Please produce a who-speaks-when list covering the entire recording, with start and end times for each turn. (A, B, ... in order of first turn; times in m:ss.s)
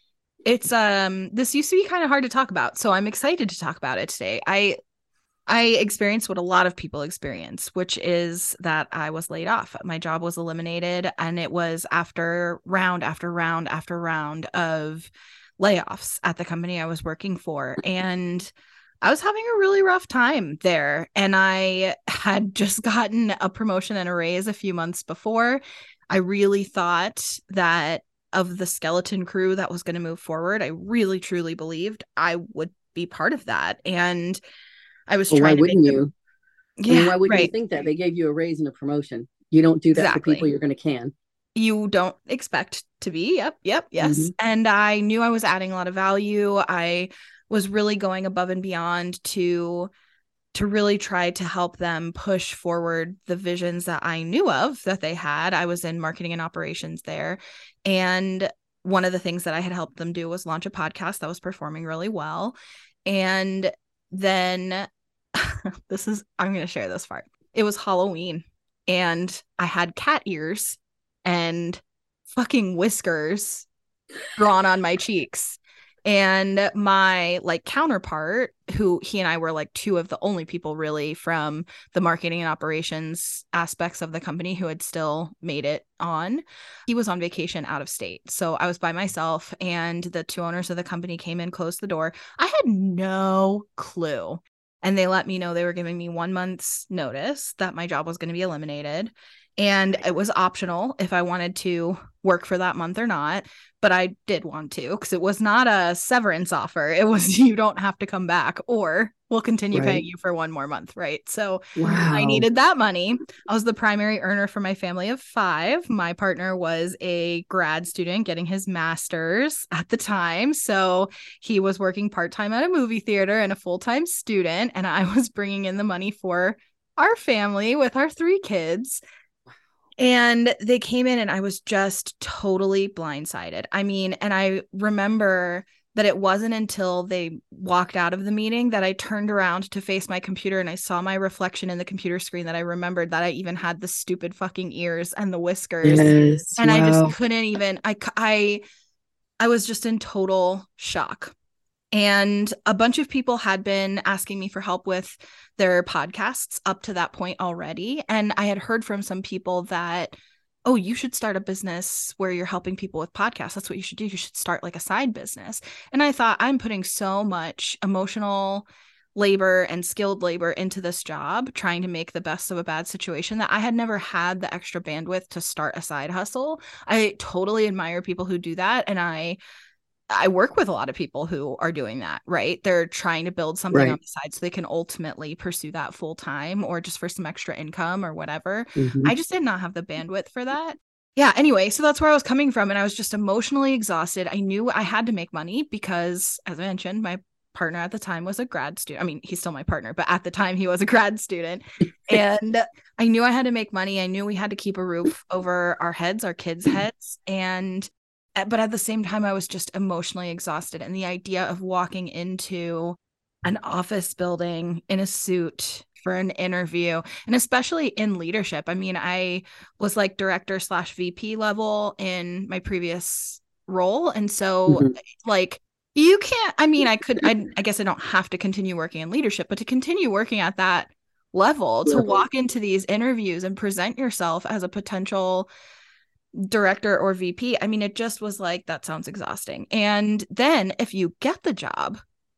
0:00.4-0:04.8 A
0:05.5-0:18.5 A
0:19.0-0:34.4 A
0:35.1-0:36.0 A
0:35.3-0:36.1 B
0:36.8-0:37.5 A
0:36.9-0:41.1 B
0:39.9-0:40.4 A
0:41.5-0:49.9 A
0:44.0-0:44.3 B
0:50.5-1:13.7 A
1:14.3-2:09.0 A
1:49.7-1:50.0 B
1:51.8-1:52.4 B
2:10.0-2:28.6 A
2:25.8-2:27.1 B
2:29.4-2:31.3 A
2:31.9-2:40.1 A
2:40.6-2:59.4 A
3:00.1-3:55.5 A
3:03.7-3:04.0 B
3:08.8-3:09.1 B
3:44.7-3:44.9 B
3:51.8-3:52.2 B
3:56.3-4:02.0 A